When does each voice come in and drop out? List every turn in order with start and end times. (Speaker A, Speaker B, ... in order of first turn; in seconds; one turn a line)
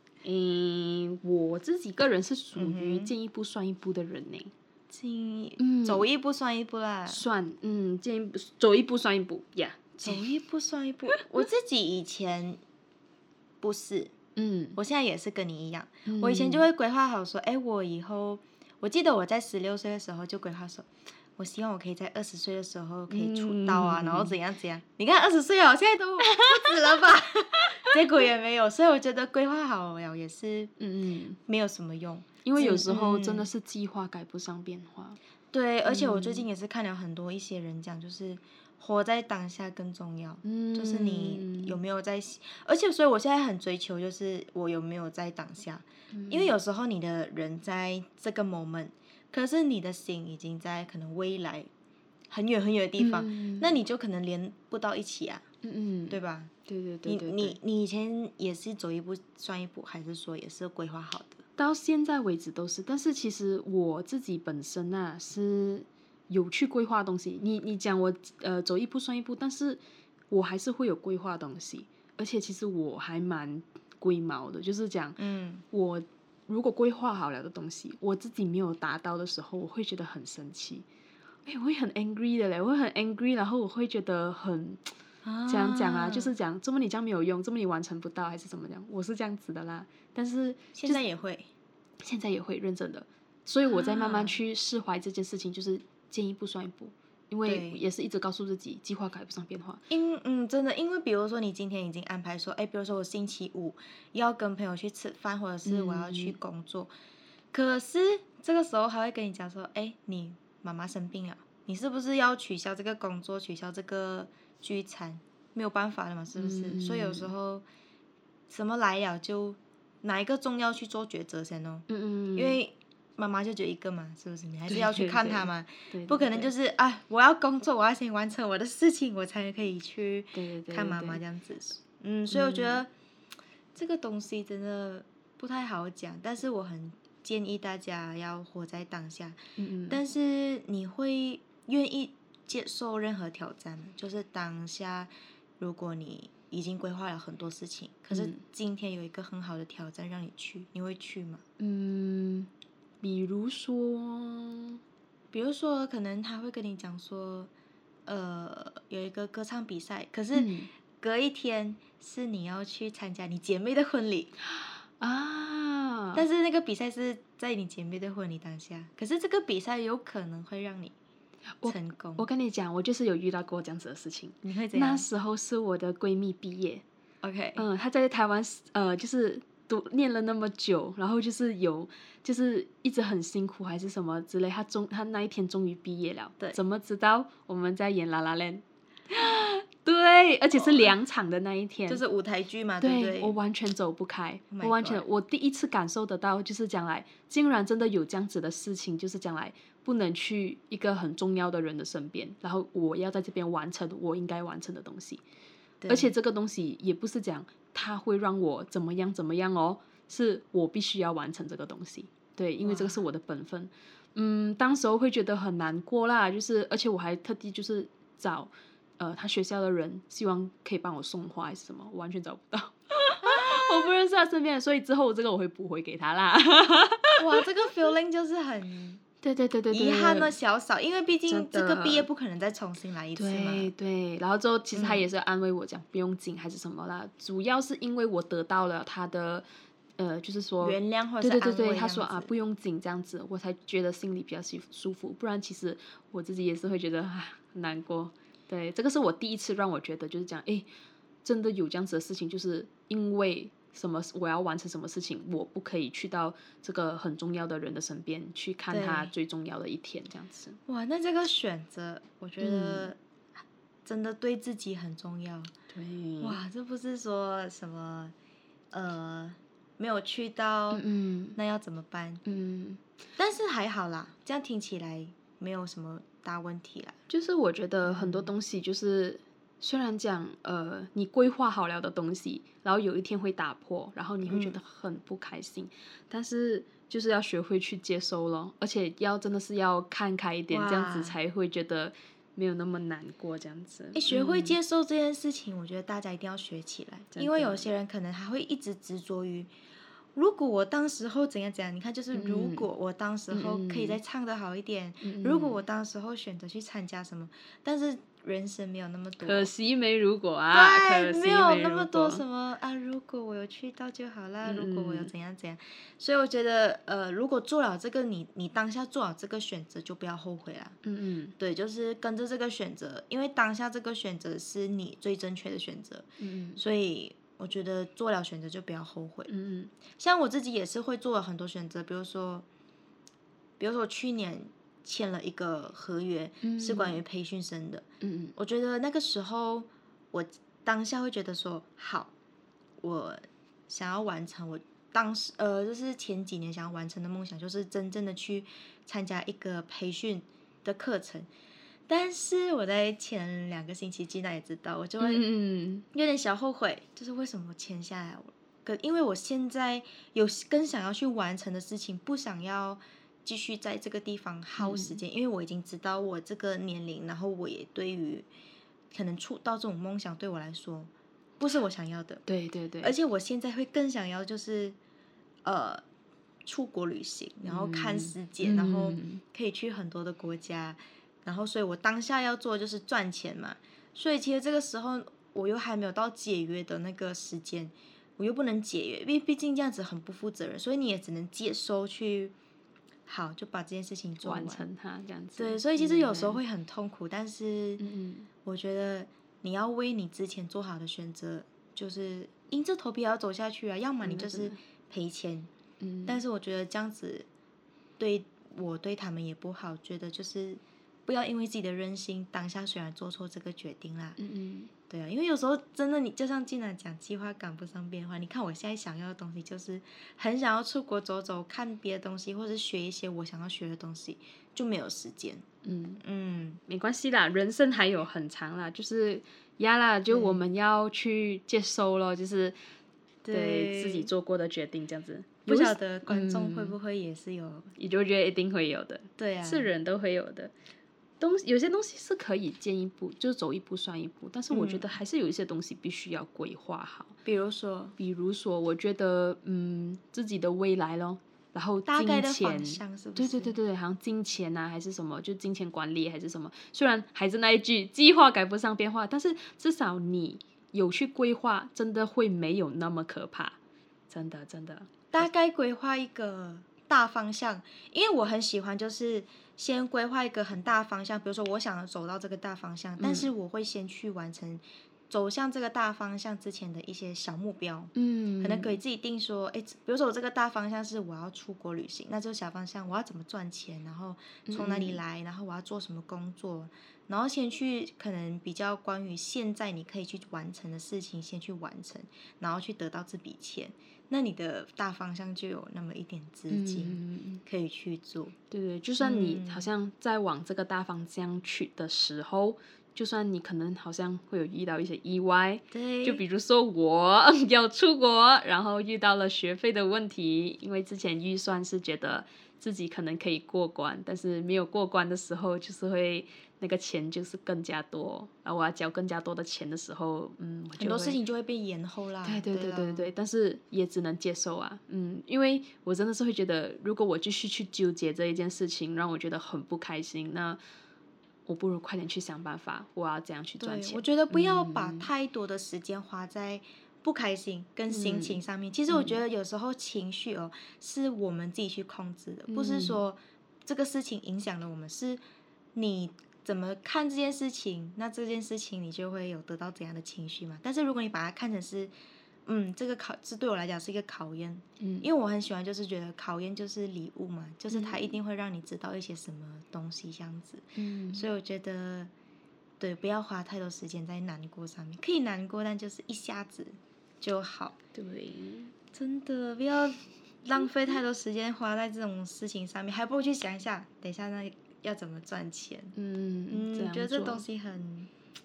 Speaker A: 0.2-4.5
Speaker B: 2.5-3.1
Speaker B: 4.9-7.2
Speaker A: 5.6-6.0
Speaker A: 7.1-10.2
Speaker B: 10.0-12.6
Speaker B: 13.6-14.1
Speaker A: 14.3-14.8
Speaker B: 14.8-30.7
Speaker A: 16.1-16.7
Speaker A: 23.1-24.4
Speaker A: 26.3-26.7
Speaker A: 30.8-31.4
Speaker B: 31.5-33.5
Speaker A: 32.4-35.2
Speaker B: 35.5-51.7
Speaker A: 35.9-36.5
Speaker A: 40.4-41.8
Speaker A: 46.1-46.5
Speaker B: 52.3-55.4
Speaker A: 53.0-53.7
Speaker A: 55.6-57.6
Speaker B: 56.1-56.5
Speaker B: 57.0-61.4
Speaker A: 61.5-75.2
Speaker B: 75.2-75.6
Speaker A: 75.7-80.8
Speaker A: 81.5-84.9
Speaker B: 85.2-86.3
Speaker A: 85.5-91.0
Speaker B: 90.7-91.5
Speaker A: 92.0-99.9
Speaker B: 93.6-94.4
Speaker B: 97.4-97.8
Speaker B: 99.9-106.9
Speaker A: 105.6-106.4
Speaker B: 107.5-117.6
Speaker A: 116.3-117.3
Speaker B: 118.5-132.9
Speaker A: 121.9-122.6
Speaker A: 124.7-126.5
Speaker A: 130.3-131.2
Speaker A: 132.3-132.8
Speaker B: 133.7-151.4
Speaker A: 139.6-140.0
Speaker A: 148.1-148.4
Speaker A: 151.6-152.5
Speaker A: 153.0-154.8
Speaker B: 155.3-157.5
Speaker B: 158.1-164.3
Speaker A: 160.3-160.7
Speaker A: 164.4-166.2
Speaker B: 166.1-170.9
Speaker A: 171.6-176.8
Speaker B: 171.6-172.3
Speaker B: 174.4-175.1
Speaker B: 177.2-177.7
Speaker A: 177.6-192.0
Speaker B: 190.5-191.0
Speaker B: 191.9-193.3
Speaker A: 192.8-205.2
Speaker B: 194.5-195.0
Speaker B: 205.8-206.1
Speaker A: 205.9-227.4
Speaker B: 212.6-213.0
Speaker B: 223.2-223.9
Speaker B: 227.2-229.0
Speaker A: 229.2-230.3
Speaker B: 229.7-233.7
Speaker A: 231.3-232.1
Speaker A: 233.2-239.4
Speaker B: 234.7-235.1
Speaker A: 240.0-250.7
Speaker B: 240.6-242.3
Speaker A: 251.2-260.6
Speaker B: 258.7-259.1
Speaker B: 260.7-263.0
Speaker A: 262.4-262.9
Speaker B: 263.8-265.5
Speaker A: 265.7-266.4
Speaker B: 266.2-268.1
Speaker B: 268.7-270.8
Speaker A: 270.7-271.4
Speaker B: 271.4-272.2
Speaker A: 272.2-272.8
Speaker B: 273.2-277.0
Speaker A: 277.1-294.6
Speaker B: 277.8-278.3
Speaker B: 284.2-284.6
Speaker B: 290.5-291.2
Speaker B: 293.9-299.5
Speaker A: 297.1-297.7
Speaker B: 300.1-309.5
Speaker A: 302.1-302.7
Speaker A: 303.3-304.0
Speaker A: 305.0-305.6
Speaker A: 309.2-312.2
Speaker B: 310.5-320.8
Speaker A: 314.4-315.1
Speaker A: 320.8-321.3
Speaker B: 321.4-329.3
Speaker A: 326.2-326.6
Speaker A: 329.3-329.7
Speaker B: 330.0-332.4
Speaker B: 333.6-337.8
Speaker A: 336.4-337.0
Speaker A: 338.0-338.3
Speaker B: 338.4-342.1
Speaker B: 342.8-351.3
Speaker B: 351.9-355.2
Speaker A: 355.0-355.8
Speaker B: 355.9-368.3
Speaker A: 364.6-365.0
Speaker B: 368.9-372.2
Speaker A: 372.2-372.9
Speaker B: 372.8-374.8
Speaker B: 375.4-375.8
Speaker B: 376.4-392.3
Speaker A: 377.4-379.2
Speaker B: 393.1-394.6
Speaker A: 394.2-396.4
Speaker B: 395.4-397.8
Speaker A: 397.8-398.3
Speaker B: 398.4-405.5
Speaker A: 404.0-404.6
Speaker A: 405.8-406.2
Speaker B: 406.1-407.3
Speaker B: 408.0-414.2
Speaker A: 414.2-414.7
Speaker B: 414.9-425.4
Speaker A: 425.6-426.0
Speaker B: 426.0-426.6
Speaker A: 426.7-432.6
Speaker B: 430.1-430.4
Speaker B: 433.2-434.1
Speaker A: 433.3-436.8
Speaker B: 435.4-437.7
Speaker A: 437.8-440.5
Speaker B: 439.2-439.7
Speaker A: 441.2-447.2
Speaker B: 444.5-444.9
Speaker B: 447.2-448.0
Speaker A: 448.0-463.6
Speaker B: 451.9-453.6
Speaker A: 464.1-465.3
Speaker B: 465.1-498.3
Speaker A: 473.0-473.3
Speaker A: 477.9-478.8
Speaker A: 484.4-485.0
Speaker A: 496.5-497.4
Speaker A: 498.5-521.2
Speaker B: 498.9-499.7
Speaker B: 505.7-506.2
Speaker B: 520.8-523.1
Speaker A: 522.2-530.6
Speaker A: 531.5-535.1
Speaker B: 533.6-545.2
Speaker A: 537.9-539.2
Speaker A: 542.5-543.0
Speaker B: 545.7-551.9
Speaker B: 552.5-562.1
Speaker A: 554.8-555.1
Speaker A: 557.7-558.1
Speaker A: 560.8-561.3
Speaker B: 562.8-567.8
Speaker A: 567.9-568.7
Speaker B: 568.9-575.9
Speaker A: 575.9-577.5
Speaker B: 576.5-578.1